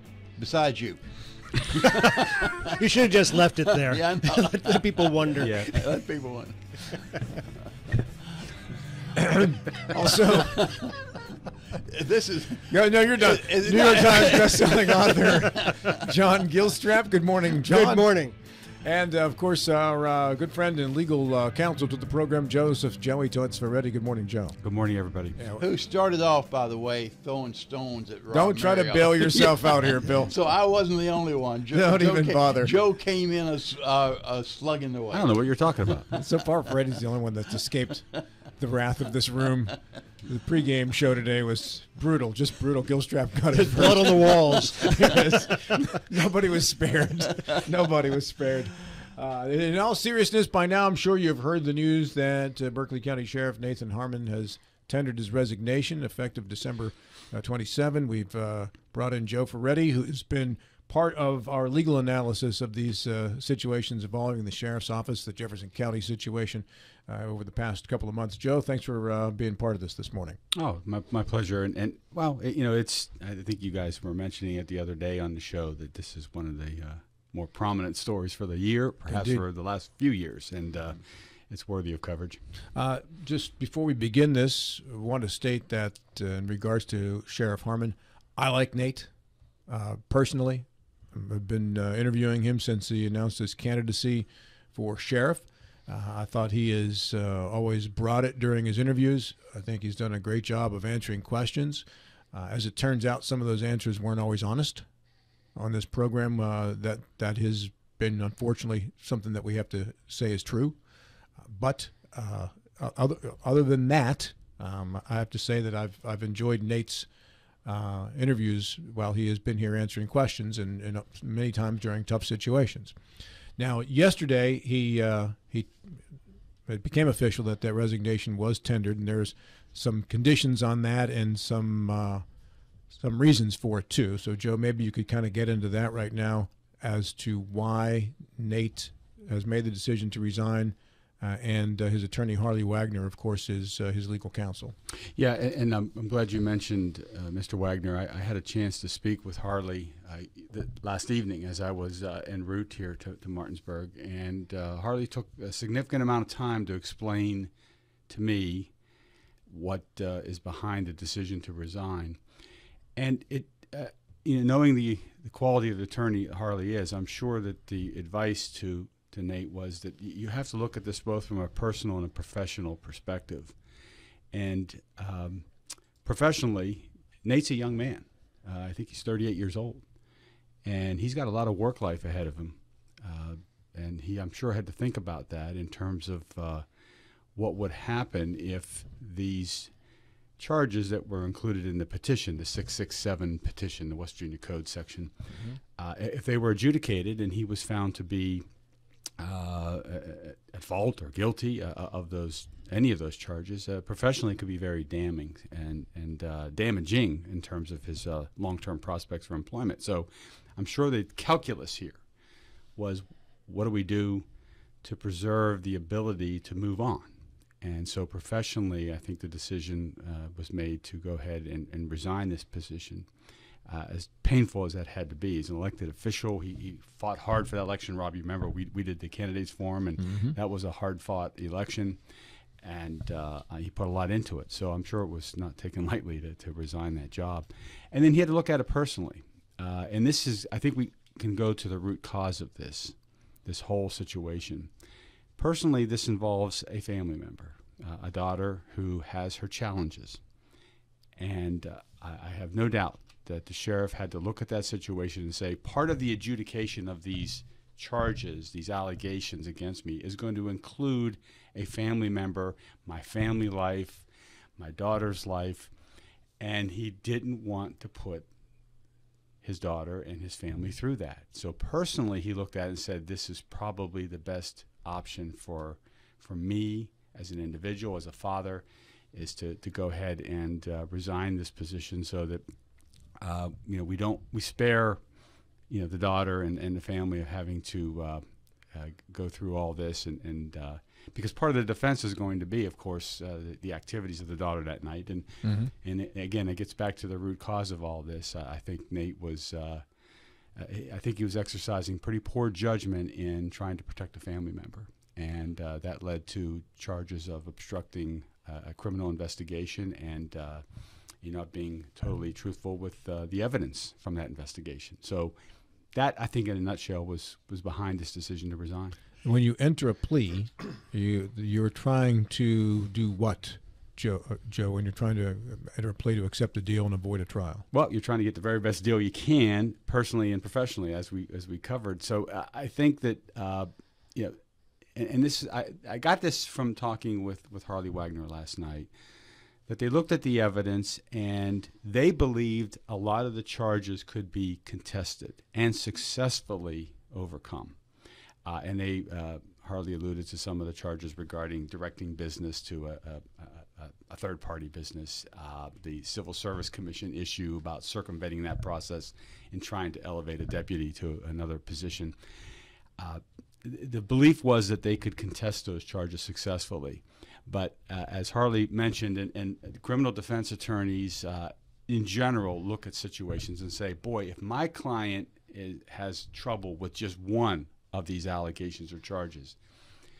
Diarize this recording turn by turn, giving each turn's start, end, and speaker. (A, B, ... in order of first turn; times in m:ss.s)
0:00.4-0:02.7 A
0:02.6-0:05.7 B
0:03.7-0:07.1 A
0:05.4-0:05.8 C
0:09.2-0:10.9 D
0:10.1-0:11.2 A
0:11.7-0:15.9 A
0:12.7-0:18.1 D
0:17.6-0:18.4 B
0:18.8-0:24.6 D
0:24.6-0:25.4 C
0:25.4-0:25.6 D
0:25.6-0:35.3 A
0:28.3-0:30.3 D
0:31.7-0:32.8 D
0:35.1-0:36.1 C
0:36.1-1:10.4 D
0:43.5-0:45.4 B
1:10.5-1:22.4 C
1:19.1-1:19.4 D
1:22.8-1:29.1 D
1:29.7-1:44.9 D
1:45.6-1:50.8 D
1:51.4-1:57.1 D
1:57.6-2:03.0 D
2:03.6-2:06.0 D
2:06.7-2:12.2 D
2:12.9-2:24.8 D
2:25.2-2:37.5 C
2:38.1-2:38.7 C
2:39.5-2:42.2 C
2:43.0-2:53.6 C
2:54.3-2:55.5 C
2:56.0-2:59.8 C
3:00.6-3:06.6 C
3:07.4-3:09.7 C
3:10.4-3:15.1 C
3:15.8-3:18.4 C
3:19.2-3:32.0 C
3:32.8-3:34.2 C
3:34.8-3:43.1 C
3:43.7-3:52.0 C
3:50.1-3:50.3 D
3:52.6-4:04.7 C
4:05.4-4:10.2 C
4:11.2-4:24.1 C
4:24.6-4:25.7 C
4:26.4-4:28.3 C
4:29.4-4:42.4 C
4:43.2-4:45.0 C
4:45.7-4:59.8 C
4:55.4-4:55.7 D
5:00.6-5:10.6 C
5:11.2-5:15.4 C
5:15.9-5:19.0 C
5:19.2-5:27.7 D
5:27.7-5:34.4 C
5:35.0-5:38.9 C
5:39.7-5:47.8 C
5:48.4-6:02.2 C
6:03.0-6:19.6 C